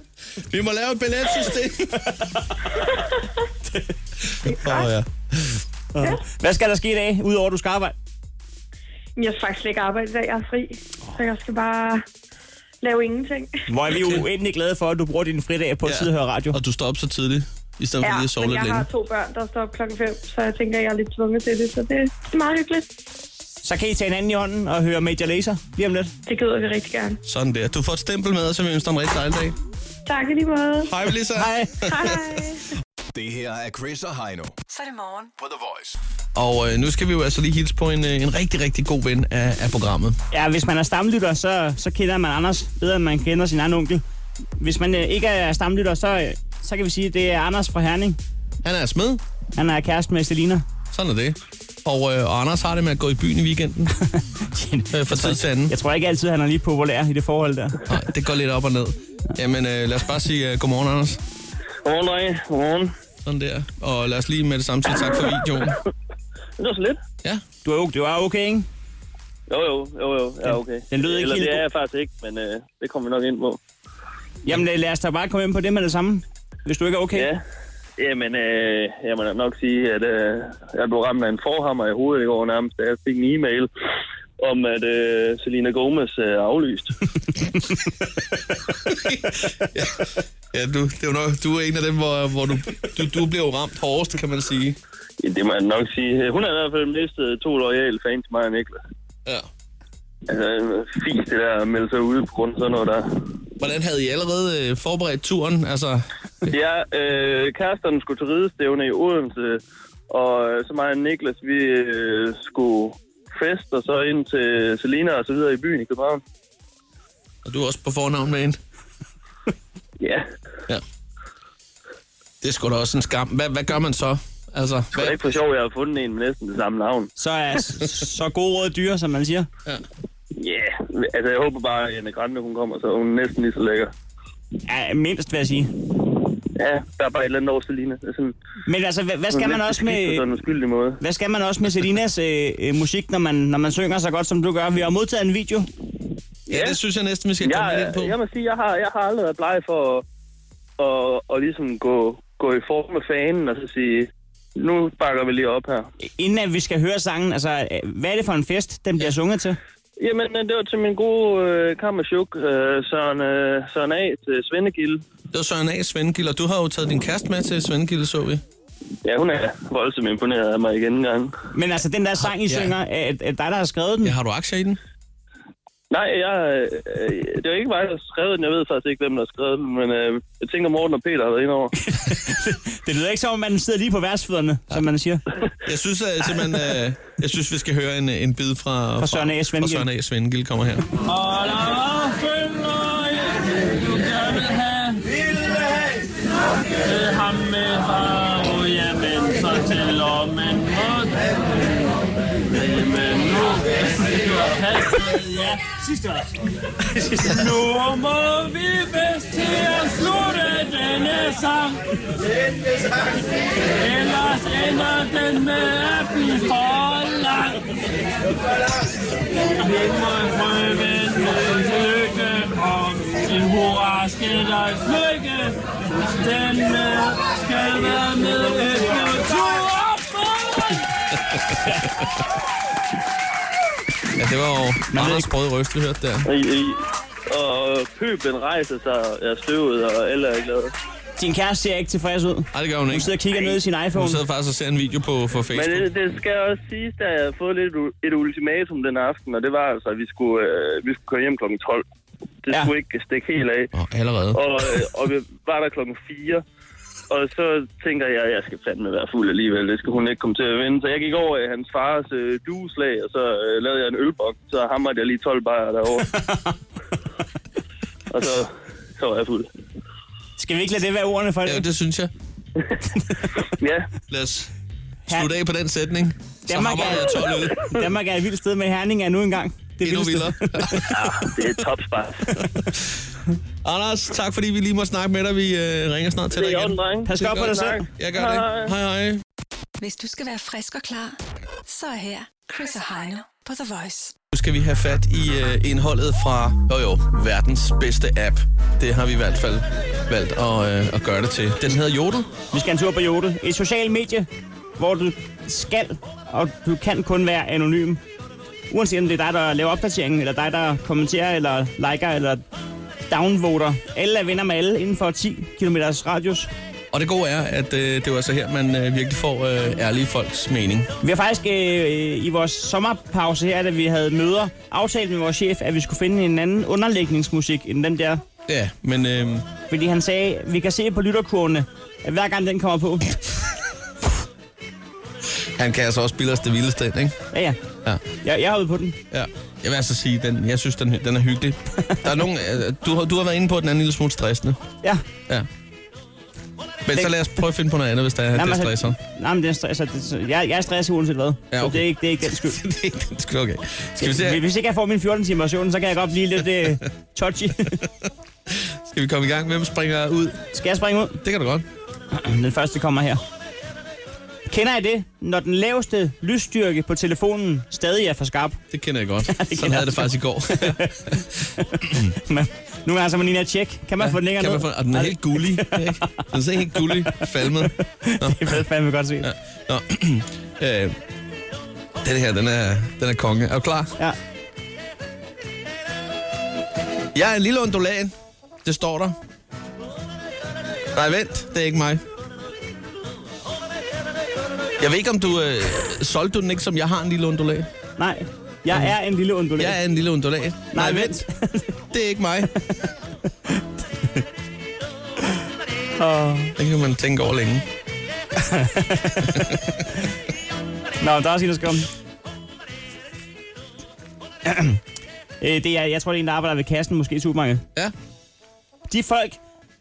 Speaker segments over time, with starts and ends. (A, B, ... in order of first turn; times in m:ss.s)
0:00.5-0:02.1 A
0:04.3-0:05.6 A
0:04.5-0:04.9 B
0:05.9-0:08.0 C
0:09.2-0:12.0 B
0:12.8-0:13.6 B
0:13.7-0:16.6 C
0:13.9-0:14.2 A
0:15.8-0:18.9 A
0:18.0-0:22.9 B
0:23.6-0:26.1 C
0:26.3-0:27.2 B
0:27.2-0:29.6 A
0:30.1-0:30.9 B
0:30.8-0:32.3 A
0:31.4-0:31.7 C
0:31.9-0:32.6 B
0:33.1-0:34.6 D
0:34.7-0:35.3 E
0:35.4-0:36.0 D
0:36.4-0:40.2 A
0:40.3-0:44.0 C
0:44.6-0:48.2 C
0:48.6-0:49.2 A
0:49.6-0:50.6 C
0:50.9-0:54.0 A
0:54.1-0:57.8 C
0:54.9-0:55.8 A
0:57.9-1:01.2 A
1:01.8-1:02.9 F
1:03.2-1:05.8 A
1:06.6-1:07.0 F
1:07.6-1:08.7 C
1:09.5-1:13.6 F
1:10.5-1:11.6 C
1:14.4-1:17.3 C
1:17.1-1:17.4 F
1:18.0-1:23.7 F
1:24.4-1:27.0 F
1:28.9-1:34.8 A
1:35.2-1:38.8 F
1:40.3-1:43.3 F
1:43.6-1:46.1 A
1:46.5-1:56.2 F
1:57.4-1:58.6 A
2:00.0-2:00.3 F
2:02.4-2:05.2 A
2:04.9-2:07.1 F
2:07.2-2:09.5 C
2:10.4-2:13.9 F
2:14.7-2:15.7 C
2:16.6-2:18.3 F
2:18.7-2:20.2 C
2:19.3-2:21.0 F
2:21.0-2:25.7 C
2:26.5-2:26.8 F
2:26.5-2:28.1 A
2:27.4-2:30.0 F
2:30.8-2:35.9 F
2:36.0-2:39.6 C
2:40.0-2:45.0 F
2:45.3-2:48.4 A
2:49.0-2:51.4 F
2:51.5-2:54.2 C
2:52.4-2:52.7 A
2:54.0-2:54.8 A
2:55.9-3:01.7 F
3:01.8-3:05.2 C
3:05.6-3:10.9 A
3:09.0-3:09.9 C
3:11.2-3:15.0 G
3:16.9-3:21.2 G
3:22.6-3:25.7 G
3:27.8-3:31.8 G
3:33.8-3:37.6 G
3:39.7-3:45.5 G
3:46.2-3:49.4 G
3:54.2-3:56.3 A
3:54.9-3:55.3 C
3:56.3-4:00.7 F
4:01.2-4:04.2 C
4:02.5-4:03.1 A
4:03.9-4:05.9 A
4:05.5-4:11.8 F
4:12.4-4:13.7 F
4:13.7-4:14.4 A
4:14.3-4:16.4 F
4:17.1-4:26.1 F
4:26.1-4:26.6 C
4:28.1-4:29.5 F
4:30.4-4:31.7 C
4:31.4-4:32.1 A
4:33.0-4:33.3 C
4:33.5-4:33.9 F
4:34.1-4:34.5 A
4:35.1-4:37.6 A
4:36.5-4:41.0 C
4:39.8-4:41.0 A
4:40.9-4:42.4 F
4:42.4-4:43.0 A
4:43.6-4:49.2 A
4:46.3-4:48.8 F
4:47.0-4:47.9 C
4:49.8-4:54.1 E
4:54.3-5:02.3 A
5:02.5-5:04.3 C
5:04.8-5:08.0 C
5:08.7-5:12.4 C
5:13.1-5:16.5 C
5:16.9-5:20.9 A
5:21.0-5:28.2 C
5:28.5-5:29.5 A
5:29.7-5:33.2 C
5:35.6-5:37.2 A
5:37.3-5:37.6 C
5:38.2-5:39.0 C
5:39.1-5:44.6 A
5:46.9-5:49.0 A
5:48.4-5:52.6 C
5:51.5-5:54.4 A
5:54.0-5:57.8 C
5:58.5-6:00.4 A
6:00.5-6:01.2 C
6:01.2-6:01.7 A
6:02.1-6:03.2 C
6:04.5-6:08.6 C
6:08.7-6:11.2 A
6:09.3-6:16.2 C
6:11.8-6:12.1 A
6:14.0-6:18.6 A
6:16.8-6:19.3 C
6:19.2-6:21.0 A
6:22.0-6:24.0 A
6:27.1-6:28.1 A
6:28.6-6:29.2 A
6:30.9-6:32.0 A
6:34.8-6:37.7 A
6:38.0-6:39.8 C
6:39.6-6:41.2 A
6:40.7-6:41.7 C
6:41.9-6:42.5 A
6:46.0-6:46.6 C
6:46.6-6:47.6 A
6:48.4-6:49.6 C
6:49.3-6:49.6 A
6:51.0-6:51.9 C
6:54.4-6:54.8 C
6:55.4-6:57.6 C
6:58.9-6:59.4 C